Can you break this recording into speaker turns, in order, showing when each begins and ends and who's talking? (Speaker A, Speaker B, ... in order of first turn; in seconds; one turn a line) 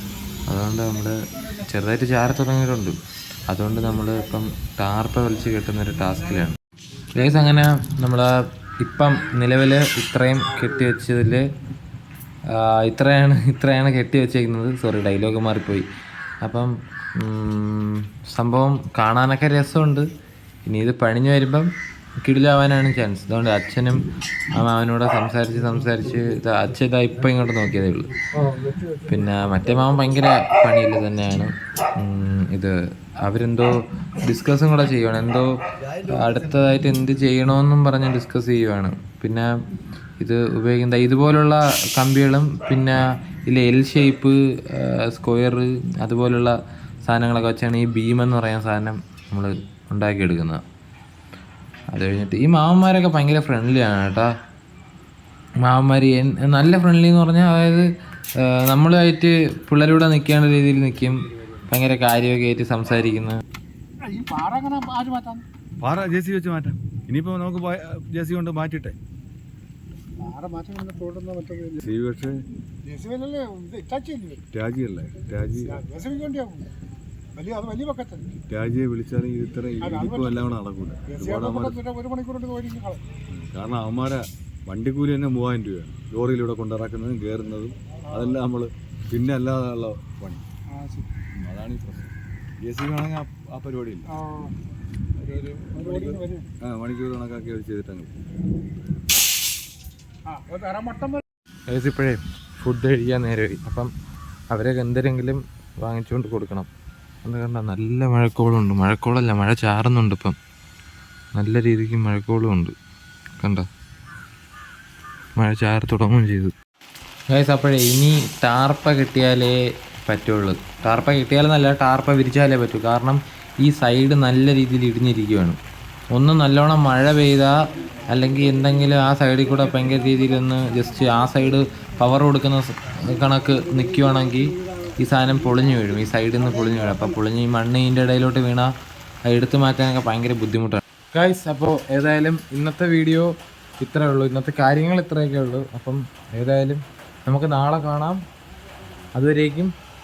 Speaker A: 0.5-3.0
Speaker A: 3.5-6.6
Speaker A: 7.1-11.5
Speaker A: 12.5-15.9
Speaker A: 16.4-20.1
Speaker A: 20.7-21.7
Speaker A: 22.2-24.0
Speaker A: 24.6-28.1
Speaker A: 29.0-33.7
Speaker A: 34.2-39.5
Speaker A: 40.2-50.6
Speaker A: 51.9-54.3
Speaker A: 55.6-57.9
Speaker A: 58.4-63.4
Speaker B: 64.0-65.5
Speaker C: 65.8-69.0
Speaker B: 70.2-71.9
Speaker C: 71.8-72.4
Speaker B: 72.8-74.4
Speaker C: 74.5-75.8
Speaker B: 75.6-76.7
Speaker B: 77.4-78.3
Speaker C: 78.4-81.8
Speaker B: 79.8-80.3
Speaker B: 81.1-83.0
Speaker C: 83.3-90.5
Speaker B: 90.7-91.1
Speaker C: 91.3-94.1
Speaker B: 94.2-94.5
Speaker C: 95.2-98.1
Speaker B: 95.8-96.5
Speaker B: 100.3-101.2
Speaker A: 101.7-103.9
Speaker A: 104.5-106.7
Speaker A: 107.2-110.4
Speaker A: 111.4-112.7
Speaker A: 113.4-113.7
Speaker A: 115.4-116.5
Speaker A: 117.3-125.6
Speaker A: 126.1-127.5
Speaker A: 128.1-138.7
Speaker A: 139.3-148.2
Speaker A: 149.2-149.7